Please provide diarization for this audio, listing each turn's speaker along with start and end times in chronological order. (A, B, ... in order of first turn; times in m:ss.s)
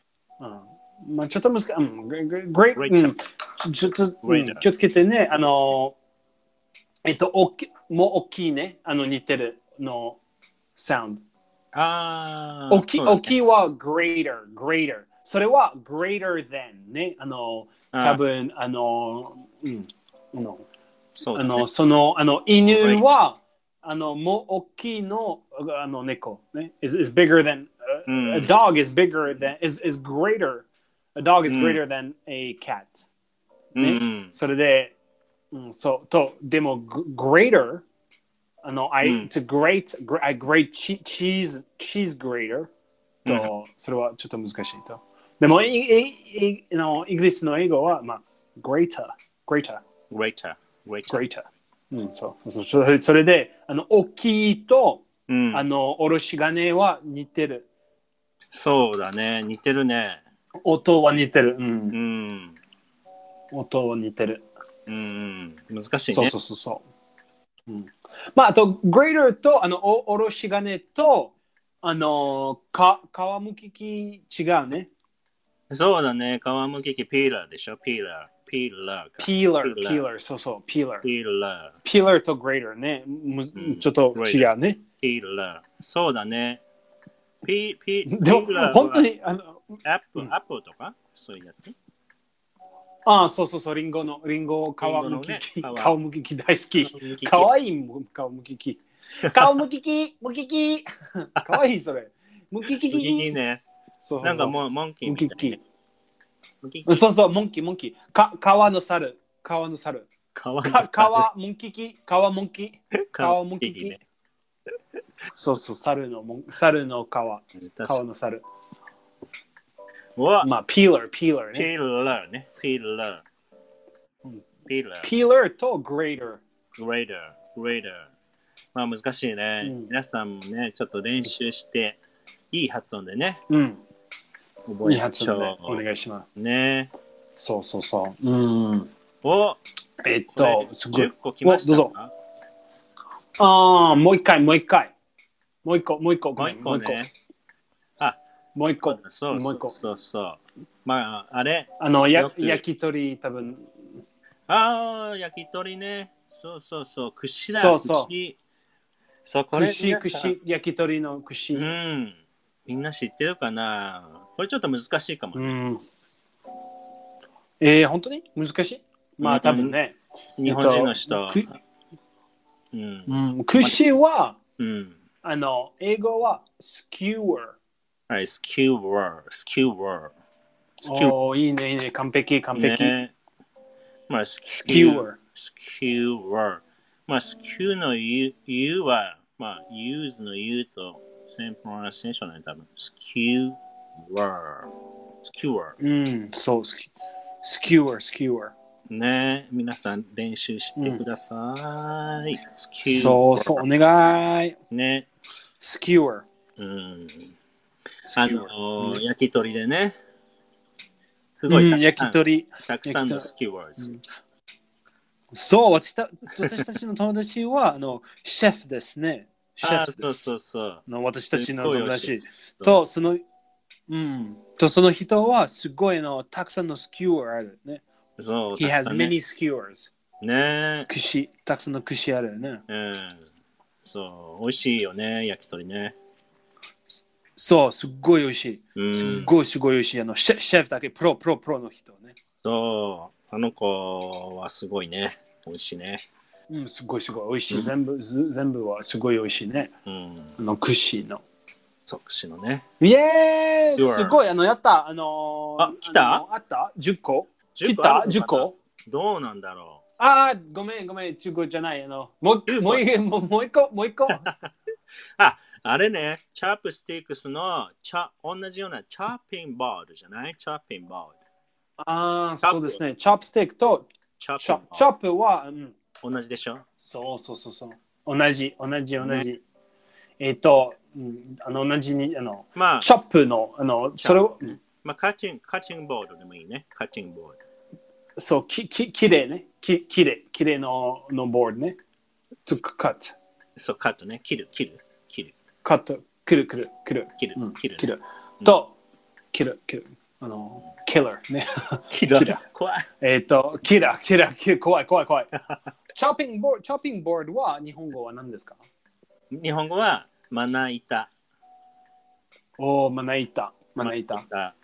0:00.4-0:06.0 A
0:02.8-0:03.1 B
0:04.2-0:04.6 B
0:07.0-0:10.2 A
0:10.8-0:11.2 A
0:11.7-0:13.3 B
0:12.7-0:20.7 A
0:17.9-0:18.2 B
0:21.2-0:21.7 B
0:21.3-0:33.1 A
0:22.6-0:23.1 B
0:28.1-0:28.5 B
0:31.5-0:31.8 B
0:33.8-0:34.3 B
0:33.8-0:34.9 A
0:35.5-0:37.8 A
0:38.6-0:42.7 A
0:39.0-0:39.3 B
0:43.3-0:49.8 A
0:50.1-0:51.2 B
0:51.1-0:57.7 A
0:55.3-0:55.6 B
0:58.5-1:00.2 B
1:00.6-1:02.0 A
1:01.9-1:02.6 B
1:03.5-1:04.5 A
1:04.9-1:06.3 B
1:06.1-1:06.8 A
1:07.7-1:14.9 A
1:15.7-1:20.1 B
1:19.2-1:21.1 A
1:21.0-1:21.8 B
1:21.8-1:24.8 A
1:23.6-1:24.5 B
1:25.0-1:26.6 B
1:27.4-1:29.1 B
1:28.1-1:30.3 A
1:29.8-1:31.8 B
1:33.1-1:43.4 A
1:34.8-1:36.0 B
1:36.8-1:37.5 B
1:42.7-1:43.6 B
1:44.0-1:45.6 A
1:44.2-1:45.6 B
1:46.6-1:47.0 B
1:46.9-1:50.1 A
1:50.4-1:51.3 B
1:50.6-1:54.0 A
1:53.1-1:54.0 B
1:55.3-1:58.4 A
1:57.6-1:58.0 B
2:00.2-2:00.5 B
2:00.4-2:01.7 A
2:01.5-2:03.2 B
2:04.7-2:05.1 B
2:05.0-2:06.4 A
2:06.8-2:08.1 B
2:08.8-2:12.0 B
2:09.6-2:09.9 A
2:12.5-2:13.4 B
2:13.5-2:13.8 A
2:14.7-2:15.8 B
2:14.8-2:16.3 A
2:16.4-2:16.9 B
2:17.4-2:18.9 A
2:19.2-2:19.6 B
2:20.0-2:21.9 A
2:20.3-2:22.1 B
2:23.4-2:24.9 A
2:25.6-2:27.1 A
2:26.4-2:27.1 B
2:28.0-2:32.6 B
2:28.6-2:29.8 A
2:31.8-2:34.0 A
2:34.5-2:38.4 B
2:37.5-2:38.1 A
2:39.2-2:40.3 B
2:39.5-2:41.7 A
2:41.5-2:45.6 B
2:45.4-2:45.8 A
2:47.6-2:51.6 A
2:49.2-2:49.8 B
2:50.4-2:51.5 B
2:52.7-2:53.8 B
2:53.1-2:54.4 A
2:54.6-2:55.0 B
2:55.2-2:57.6 A
2:58.1-3:00.1 B
3:00.8-3:03.0 A
3:00.8-3:01.2 B
3:02.6-3:03.1 B
3:04.1-3:15.8 B
3:04.4-3:05.2 A
3:15.8-3:16.9 A
3:17.4-3:18.5 A
3:18.9-3:23.7 B
3:20.8-3:21.0 A
3:22.9-3:24.6 A
3:24.7-3:25.1 B
3:25.6-3:26.3 A
3:26.6-3:27.4 B
3:28.1-3:29.0 A
3:28.1-3:30.0 B
3:31.4-3:33.9 B
3:31.5-3:33.3 A
3:35.3-3:40.3 A
3:39.6-3:42.8 B
3:40.9-3:43.2 A
3:43.9-3:47.8 A
3:48.2-3:49.2 B
3:48.6-3:49.9 A
3:50.2-3:50.9 B
3:50.9-3:52.6 A
3:52.7-3:53.3 B
3:53.8-3:56.0 B
3:56.9-4:02.2 A
3:58.8-3:59.3 B
4:02.4-4:06.0 B
4:06.5-4:09.7 A
4:09.9-4:10.4 B
4:10.4-4:11.2 A
4:11.9-4:12.6 B
4:12.8-4:18.5 A
4:13.8-4:14.2 B
4:15.6-4:16.2 B
4:17.6-4:19.8 B
4:20.0-4:24.3 A
4:22.5-4:22.9 B
4:24.1-4:24.5 B
4:25.2-4:31.2 B
4:31.8-4:33.9 A
4:32.4-4:32.8 B
4:34.2-4:34.9 B
4:34.4-4:35.8 A
4:36.0-4:36.6 B
4:36.8-4:39.4 A
4:39.0-4:39.3 B
4:40.2-4:44.6 A
4:42.6-4:42.9 B
4:44.0-4:47.4 B
4:48.2-4:51.8 A
4:52.5-4:53.2 A
4:53.6-4:55.3 B
4:55.6-4:58.8 A
4:57.2-4:58.6 B
4:59.3-5:02.4 A
5:01.9-5:02.9 B
5:03.0-5:05.3 A
5:05.9-5:08.6 A
5:09.3-5:11.1 B
5:12.6-5:14.2 A
5:13.8-5:14.6 B